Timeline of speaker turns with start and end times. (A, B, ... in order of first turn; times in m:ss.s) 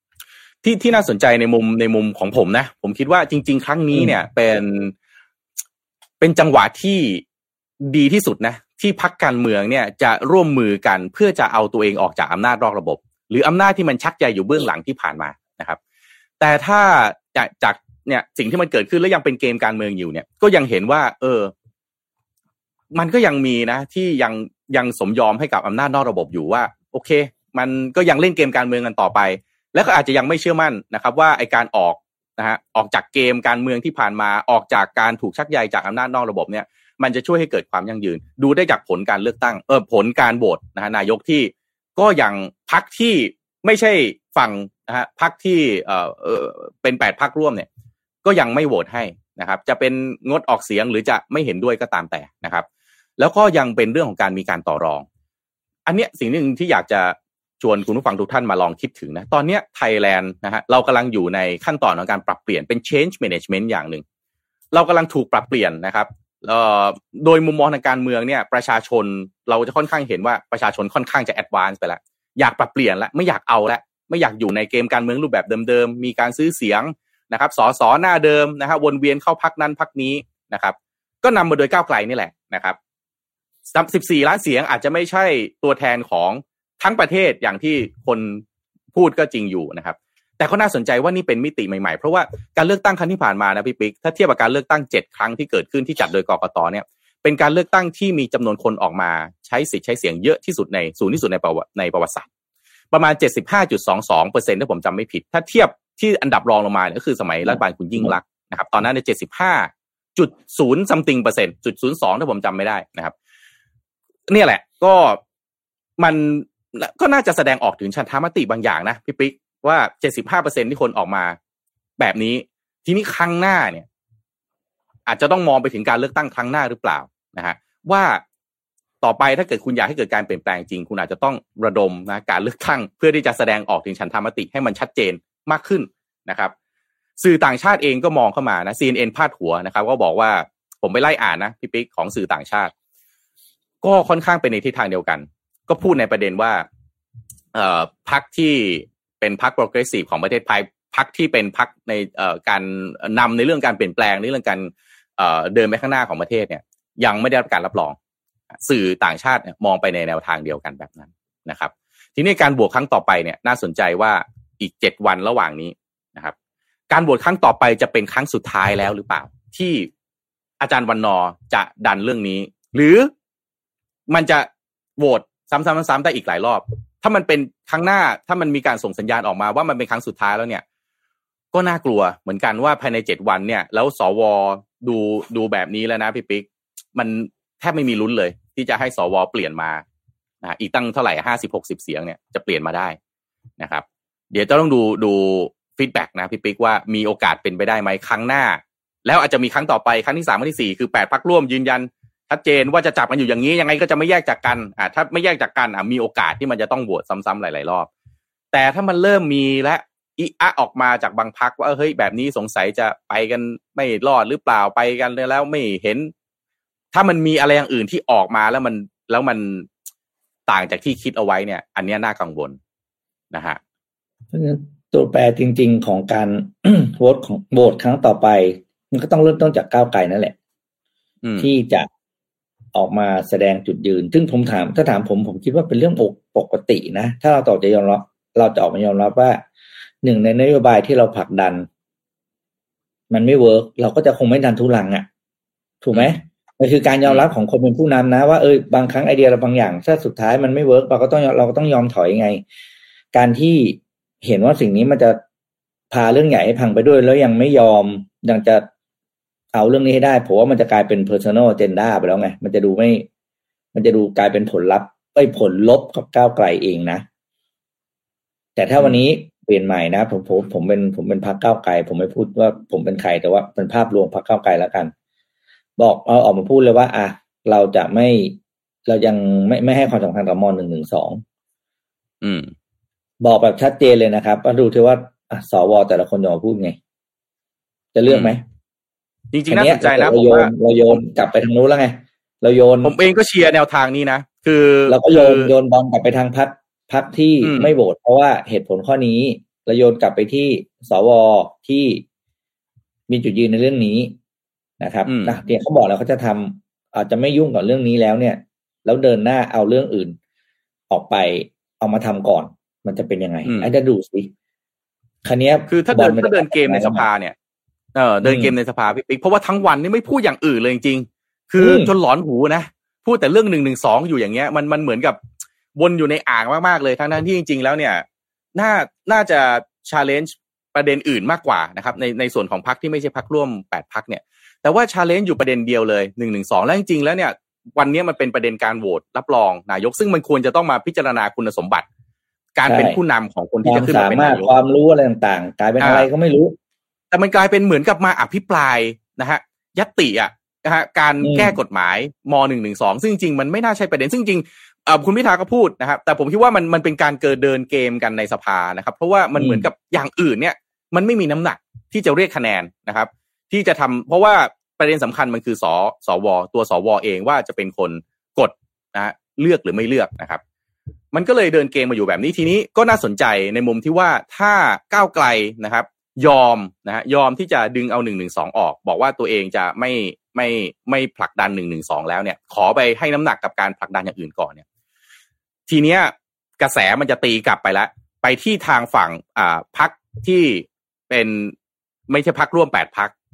0:00.6-0:04.9 A
0:06.2-0:07.2 A
0:07.8-0:15.8 A
0:16.4-0:21.5 A
0:22.9-0:47.7 A
0:48.2-0:52.6 A
0:53.2-0:55.0 A
0:55.8-1:04.0 A
1:04.7-1:22.8 A
1:23.7-1:28.4 A
1:28.9-1:42.3 A
1:42.9-1:53.1 A
1:47.5-1:48.1 B
1:54.3-1:55.2 A
1:56.0-2:01.4 A
2:02.0-2:03.8 A
2:05.1-2:08.2 A
2:09.0-2:16.5 A
2:17.2-2:22.7 A
2:23.8-2:26.6 A
2:27.5-2:38.0 A
2:38.6-2:46.3 A
2:46.9-2:49.9 A
2:50.6-2:53.1 A
2:54.1-3:00.6 A
3:01.5-3:09.8 A
3:10.4-3:13.0 A
3:13.6-3:27.9 A
3:28.5-3:36.1 A
3:36.9-3:39.7 A
3:40.5-3:42.6 A
3:43.3-3:43.6 A
3:44.3-3:50.4 B
3:51.2-3:51.5 A
3:51.4-3:51.9 B
3:52.7-3:59.4 B
4:00.0-4:01.7 B
4:03.1-4:05.1 B
4:05.8-4:12.4 B
4:05.9-4:06.2 A
4:13.1-4:15.2 B
4:15.9-4:18.6 B
4:19.5-4:23.1 B
4:23.7-4:27.0 B
4:28.6-4:34.9 B
4:35.8-4:41.2 B
4:42.2-4:42.5 A
4:43.2-4:46.8 B
4:47.9-4:48.4 B
4:48.1-4:48.3 A
4:49.3-4:51.0 A
4:49.5-4:52.9 B
4:52.8-4:55.5 A
4:54.9-5:02.0 B
4:57.4-4:57.7 A
5:03.1-5:04.2 B
5:04.8-5:10.2 B
5:05.0-5:05.4 A
5:10.9-5:14.3 B
5:13.4-5:13.7 A
5:15.2-5:17.0 B
5:15.7-5:17.3 A
5:17.9-5:25.2 A
5:18.2-5:18.5 B
5:21.6-5:21.9 B
5:25.8-5:28.0 A
5:28.6-5:41.8 A
5:42.6-5:44.5 A
5:42.6-5:43.0 B
5:43.6-5:46.6 B
5:45.8-5:46.1 A
5:47.1-6:10.4 A
5:51.2-5:51.6 B
5:59.4-5:59.6 B
6:11.1-6:24.6 A
6:25.7-6:31.5 A
6:32.1-6:33.1 A